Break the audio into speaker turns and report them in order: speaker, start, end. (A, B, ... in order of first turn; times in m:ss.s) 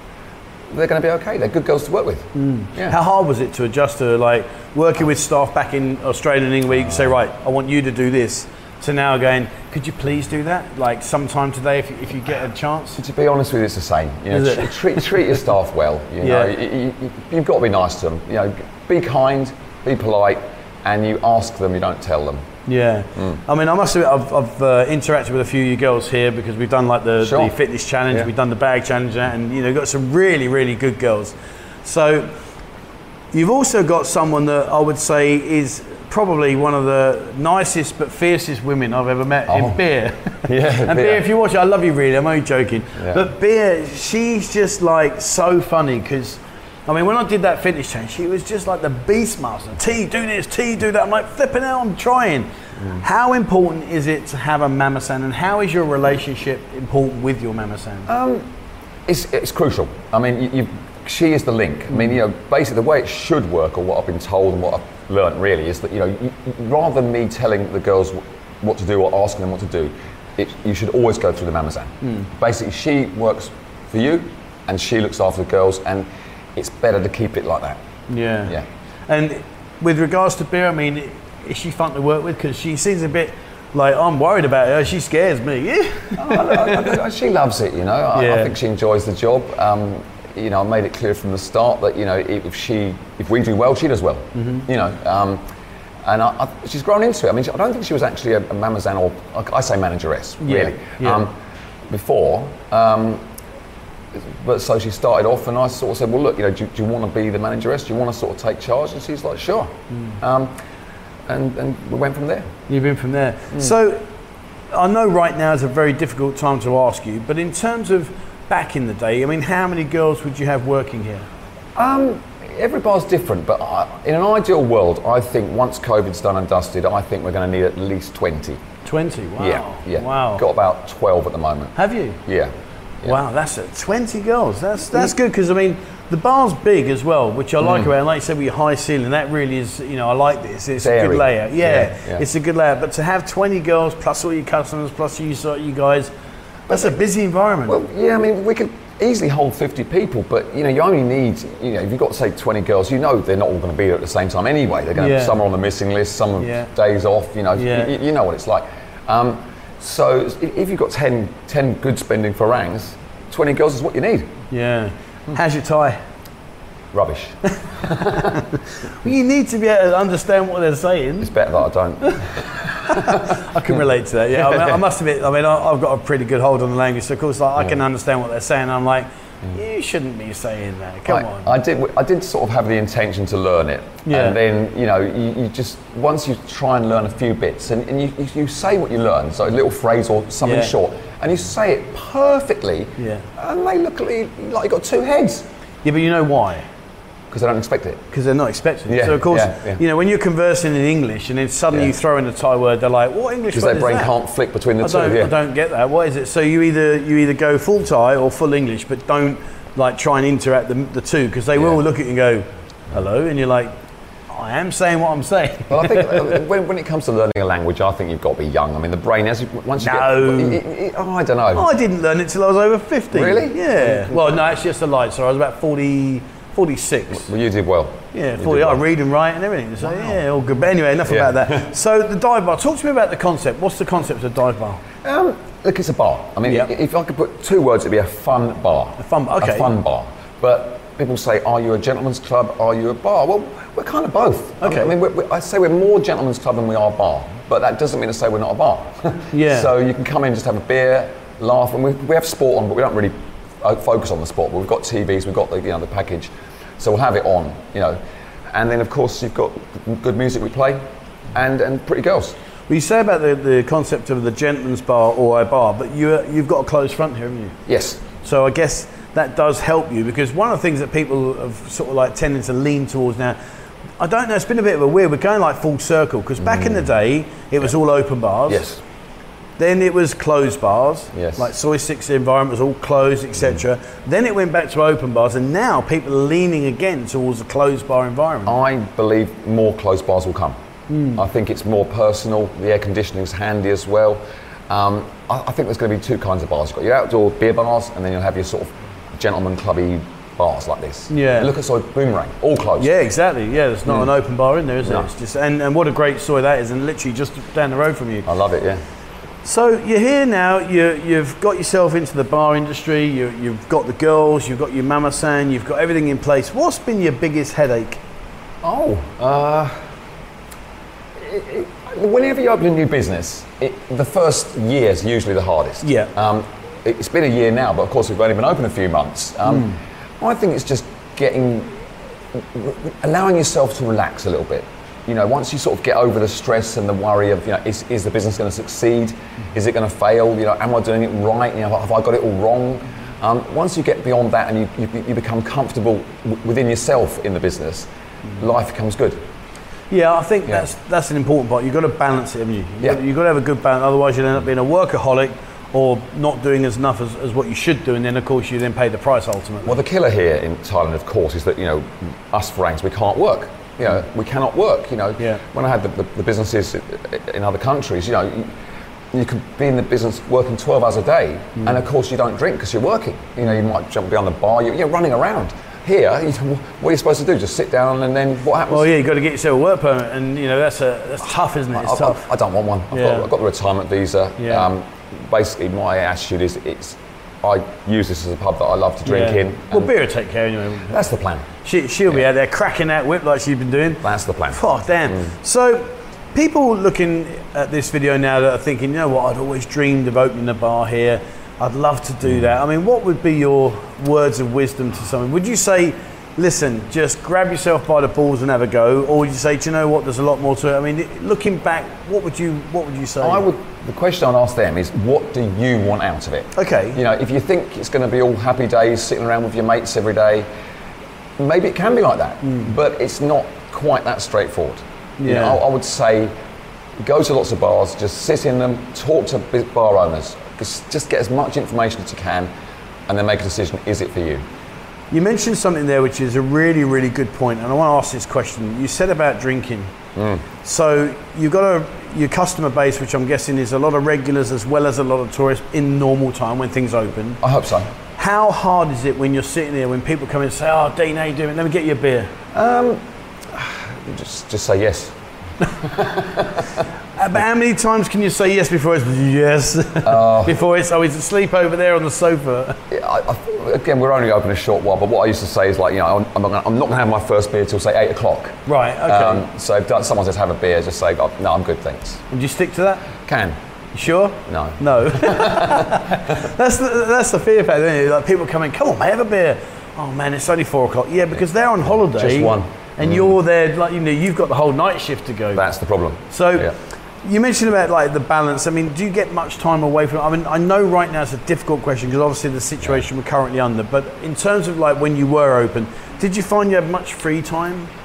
0:00.7-0:03.0 A
0:02.4-0:13.0 B
0:06.8-0:07.1 A
0:13.0-0:22.5 A
0:14.3-0:15.0 B
0:16.2-0:16.5 B
0:22.7-0:32.3 B
0:27.2-0:27.5 A
0:33.3-0:58.1 B
0:39.5-0:39.8 A
0:40.5-0:41.2 A
0:43.0-0:43.3 A
0:58.1-0:58.5 A
0:59.1-1:17.8 A
1:12.0-1:12.3 B
1:18.1-1:18.6 B
1:19.1-1:27.0 B
1:26.2-1:35.4 A
1:28.1-1:28.5 B
1:34.4-1:34.7 B
1:36.0-1:41.3 A
1:40.4-1:41.2 B
1:41.9-1:43.2 A
1:44.1-1:50.5 A
1:51.3-1:52.5 A
1:52.7-1:54.0 B
1:54.7-2:01.3 B
2:01.8-2:08.6 A
2:08.8-2:10.4 B
2:09.4-2:11.7 A
2:11.8-2:12.2 B
2:12.2-2:13.2 A
2:13.0-2:26.1 B
2:17.6-2:17.9 A
2:20.8-2:22.2 A
2:26.7-2:26.9 A
2:26.7-2:27.8 B
2:27.7-2:44.3 A
2:35.0-2:35.4 B
2:36.4-2:36.7 B
2:37.6-2:37.9 B
2:44.5-2:46.0 B
2:46.9-2:48.4 A
2:47.5-2:51.3 B
2:51.2-2:53.4 A
2:52.0-3:01.5 B
2:54.3-2:54.8 A
3:01.1-3:15.5 A
3:04.1-3:04.4 B
3:10.4-3:10.7 B
3:13.0-3:13.3 B
3:15.8-3:16.7 B
3:17.3-3:18.0 A
3:18.1-3:24.1 B
3:18.9-3:19.8 A
3:23.5-3:25.3 A
3:24.8-3:33.7 B
3:34.3-3:36.4 B
3:35.7-3:41.7 A
3:39.8-3:40.6 B
3:41.6-3:47.3 B
3:43.1-3:44.2 A
3:47.1-3:48.8 A
3:48.1-3:54.8 B
3:51.1-3:51.6 A
3:55.0-4:18.0 A
3:59.0-3:59.7 B
4:04.6-4:04.9 B
4:09.3-4:09.7 B
4:18.5-4:20.8 A
4:21.3-4:22.4 A
4:22.7-4:27.6 B
4:27.7-4:28.0 A
4:28.2-4:33.4 B
4:34.0-4:38.6 B
4:36.4-4:36.9 A
4:38.5-4:38.8 A
4:39.6-4:48.6 B
4:41.1-4:41.5 A
4:48.5-4:50.6 A
4:50.9-4:51.2 B
4:51.2-5:02.9 A
5:01.1-5:01.5 B
5:02.8-5:08.3 B
5:08.3-5:08.8 A
5:09.4-5:18.0 B
5:18.6-5:19.8 A
5:21.2-5:31.8 A
5:25.8-5:26.1 B
5:32.4-5:49.2 A
5:49.9-5:59.8 B
5:59.6-6:08.6 A
6:09.1-6:18.9 A
6:18.7-6:22.3 B
6:21.7-6:29.9 A
6:22.9-6:23.3 B
6:24.4-6:24.7 B
6:29.0-6:31.0 B
6:30.9-6:31.5 A
6:31.6-6:53.5 B
6:34.0-6:34.6 A
6:53.2-7:00.5 A
6:56.6-6:57.0 B
7:01.4-7:06.3 A
7:02.4-7:02.7 B
7:05.2-7:05.6 B
7:07.0-7:12.5 A
7:13.1-7:14.4 A
7:15.1-7:19.9 B
7:20.2-7:20.4 A
7:20.6-7:27.4 B
7:27.4-7:27.9 A
7:28.2-7:32.3 B
7:32.5-7:35.2 A
7:35.7-7:36.8 A
7:37.2-7:42.8 B
7:40.0-7:40.6 A
7:42.9-7:52.2 A
7:48.7-7:49.5 B
7:52.3-7:53.1 B
7:53.2-7:53.6 A
7:54.0-8:05.6 B
7:54.5-7:56.2 A
8:02.0-8:03.4 A
8:05.5-8:06.7 A
8:06.3-8:17.9 B